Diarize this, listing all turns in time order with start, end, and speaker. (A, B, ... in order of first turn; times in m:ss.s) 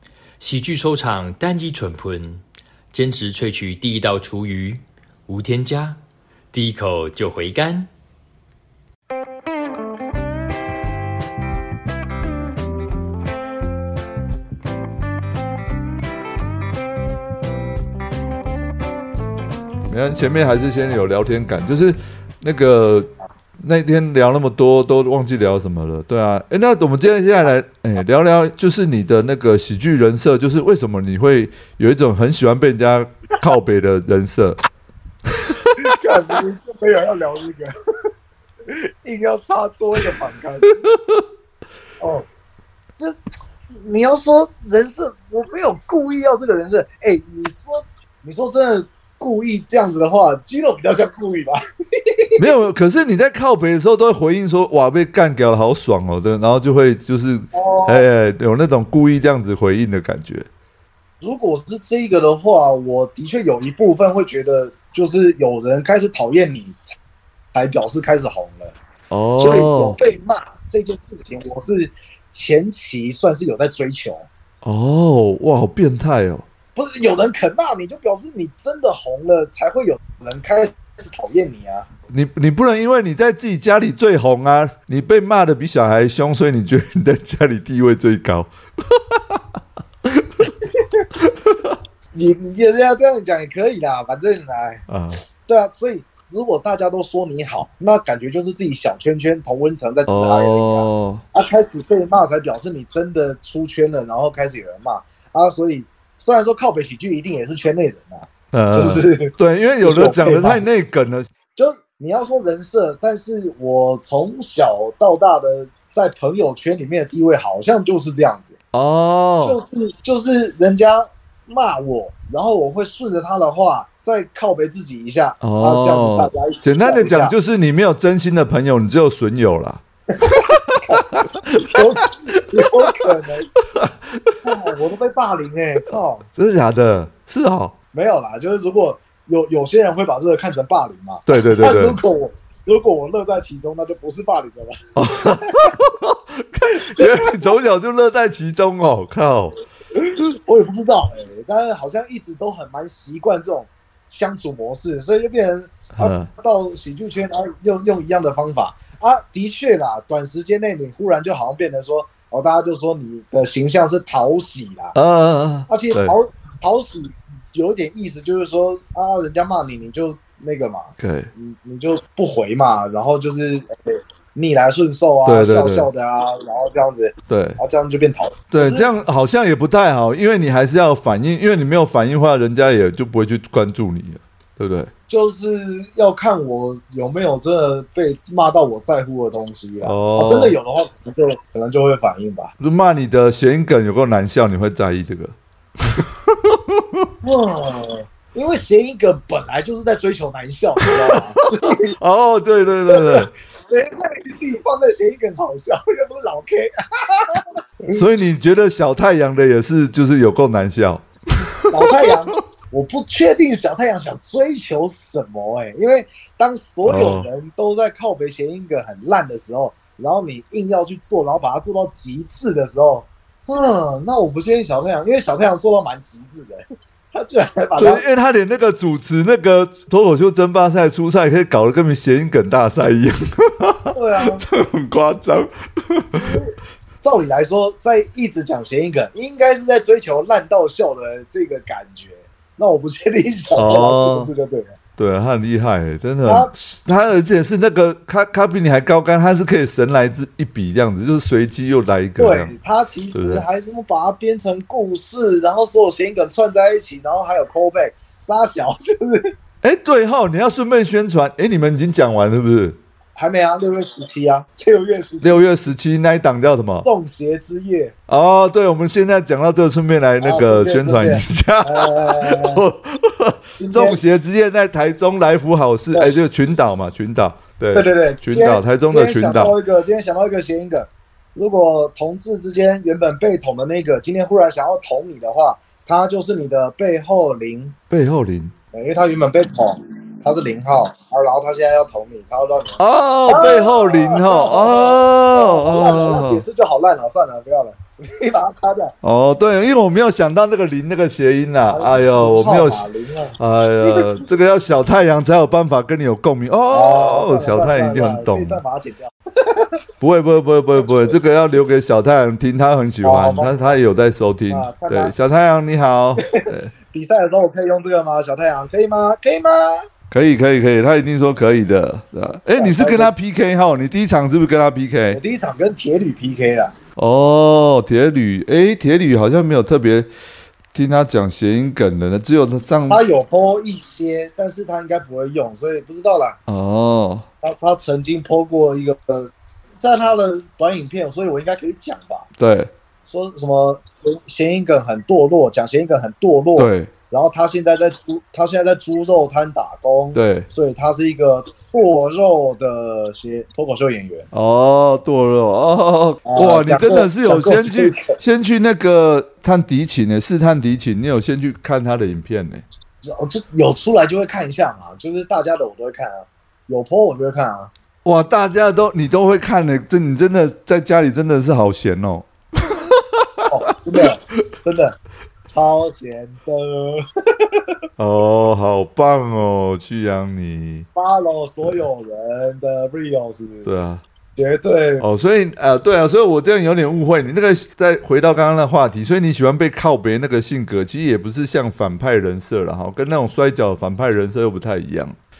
0:00.4-0:06.0 A
0:06.5-0:07.9 A
0:19.9-0:23.1 B
0:23.6-0:34.6 B
0:35.3-0:35.7 B
0:35.8-0:37.7 C
0:38.7-0:40.8 C
0:40.9-0:41.2 B
0:42.0-0:42.2 C
0:43.7-0:51.6 C
0:52.1-0:52.4 C
0:52.4-1:00.5 B
0:57.5-0:58.0 C
1:01.2-1:06.9 C
1:07.5-1:08.7 C
1:09.1-1:10.0 B
1:09.4-1:14.3 C
1:14.6-1:16.4 B
1:16.7-1:21.8 C
1:22.1-1:29.4 B
1:31.2-1:31.8 B
1:32.1-1:34.8 C
1:34.9-1:35.2 B
1:35.4-1:50.6 C
1:40.1-1:41.2 B
1:48.5-1:51.3 B
1:51.6-1:58.5 C
1:58.7-1:59.6 B
1:59.4-2:07.3 C
2:05.4-2:11.8 B
2:10.2-2:13.5 C
2:13.7-2:14.4 B
2:14.4-2:16.2 C
2:16.3-2:17.7 B
2:17.9-2:25.7 C
2:21.3-2:22.0 B
2:25.0-2:29.5 B
2:26.7-2:27.6 C
2:29.9-2:44.9 C
2:35.9-2:36.3 B
2:44.9-2:46.1 B
2:45.7-2:58.9 C
2:51.0-2:51.3 B
2:55.2-2:55.9 B
2:57.3-2:57.6 B
2:58.5-3:04.9 B
3:05.1-3:12.5 C
3:09.8-3:10.6 B
3:12.6-3:17.1 B
3:17.2-3:22.0 C
3:20.9-3:21.2 B
3:21.7-3:23.3 B
3:22.9-3:28.0 C
3:27.9-3:32.1 B
3:31.7-3:48.0 C
3:36.8-3:37.3 B
3:47.8-3:56.2 B
3:53.9-3:54.4 C
3:56.2-4:04.8 C
4:03.6-4:04.3 B
4:05.0-4:12.5 B
4:06.2-4:06.5 C
4:12.2-4:19.3 C
4:13.1-4:13.4 B
4:19.6-4:22.8 B
4:23.2-4:25.4 C
4:25.2-4:26.9 B
4:26.8-4:27.9 C
4:28.1-4:39.5 B
4:30.2-4:32.6 C
4:33.6-4:34.0 C
4:37.7-4:47.8 C
4:47.9-4:48.5 B
4:48.7-4:58.9 C
4:52.8-4:56.4 B
4:59.0-5:02.8 B
5:01.7-5:04.2 C
5:03.4-5:08.6 B
5:06.7-5:09.7 C
5:10.0-5:16.7 B
5:13.0-5:13.8 C
5:14.5-5:15.1 C
5:16.2-5:19.8 C
5:20.1-5:25.2 B
5:22.6-5:23.1 C
5:25.1-5:26.7 C
5:27.0-5:30.1 B
5:30.7-5:33.0 B
5:32.9-5:36.4 C
5:36.5-5:37.3 B
5:37.4-5:42.3 C
5:42.4-5:42.7 B
5:43.0-5:54.3 C
5:46.6-5:46.9 B
5:50.1-5:50.5 B
5:54.3-6:02.6 B
5:56.2-5:58.2 C
6:03.0-6:07.7 C
6:08.0-6:13.5 B
6:13.5-6:14.9 C
6:15.5-6:17.6 C
6:18.0-6:20.9 B
6:20.9-6:23.7 C
6:23.6-6:24.0 B
6:24.4-6:25.0 C
6:25.0-6:35.2 B